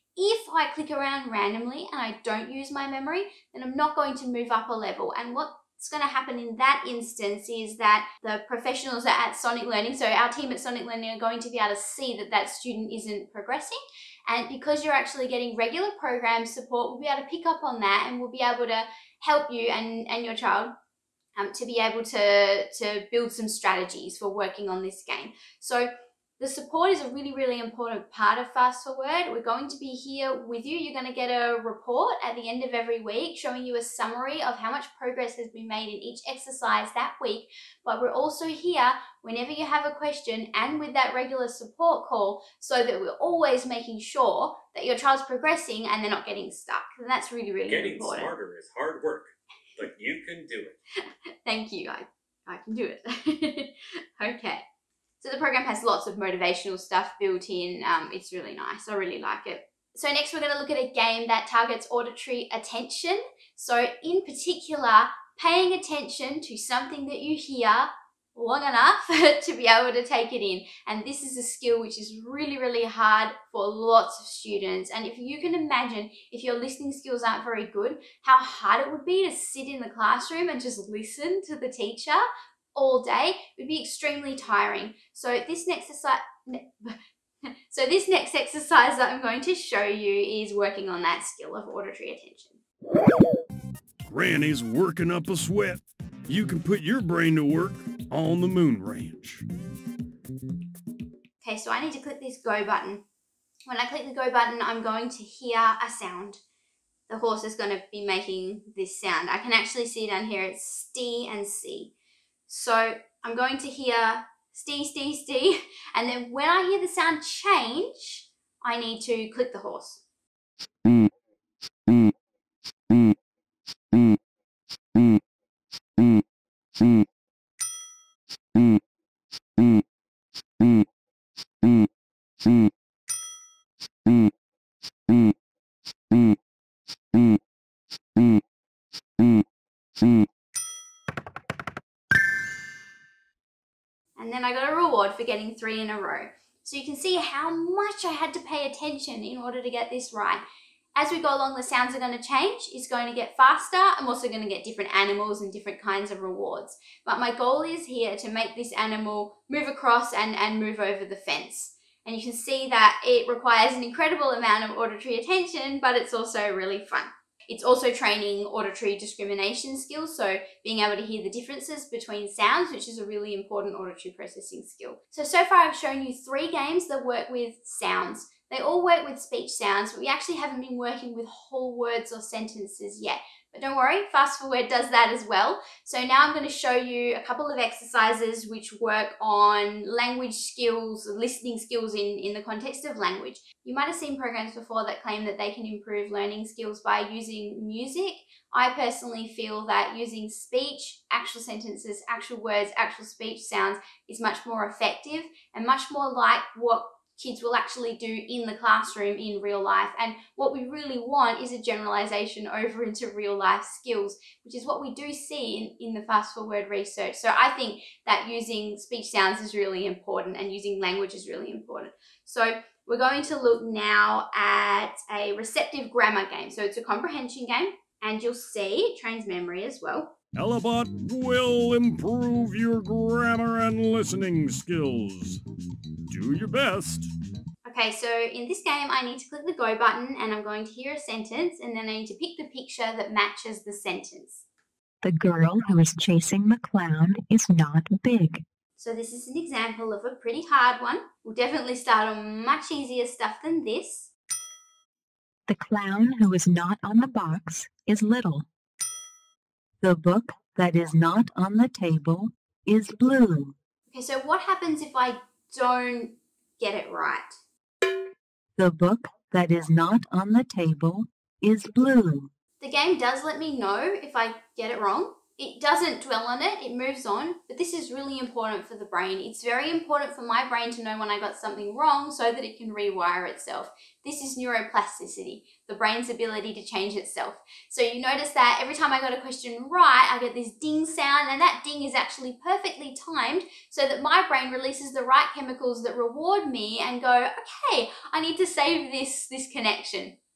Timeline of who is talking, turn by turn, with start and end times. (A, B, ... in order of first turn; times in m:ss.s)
0:00.2-0:20.7 A
0:21.4-0:48.3 A
0:47.6-0:50.8 B
0:51.4-0:54.6 A
0:55.2-1:22.2 A
1:22.8-1:27.0 A
1:27.7-1:32.6 A
1:37.6-1:38.1 C
1:38.8-1:39.4 C
1:41.4-1:43.0 A
1:43.7-1:46.4 A
1:47.1-1:51.9 A
1:52.5-2:00.0 A
2:24.2-2:30.4 A
2:31.0-3:50.1 A
3:50.4-3:52.4 C
3:55.2-3:55.4 C
3:56.8-3:57.1 C
3:57.6-4:04.4 A
4:05.0-4:08.4 D
4:08.8-4:14.1 A
4:15.5-4:18.5 D
4:19.8-4:23.6 D
4:23.9-4:27.4 A
4:28.6-4:32.3 D
4:32.6-5:00.1 A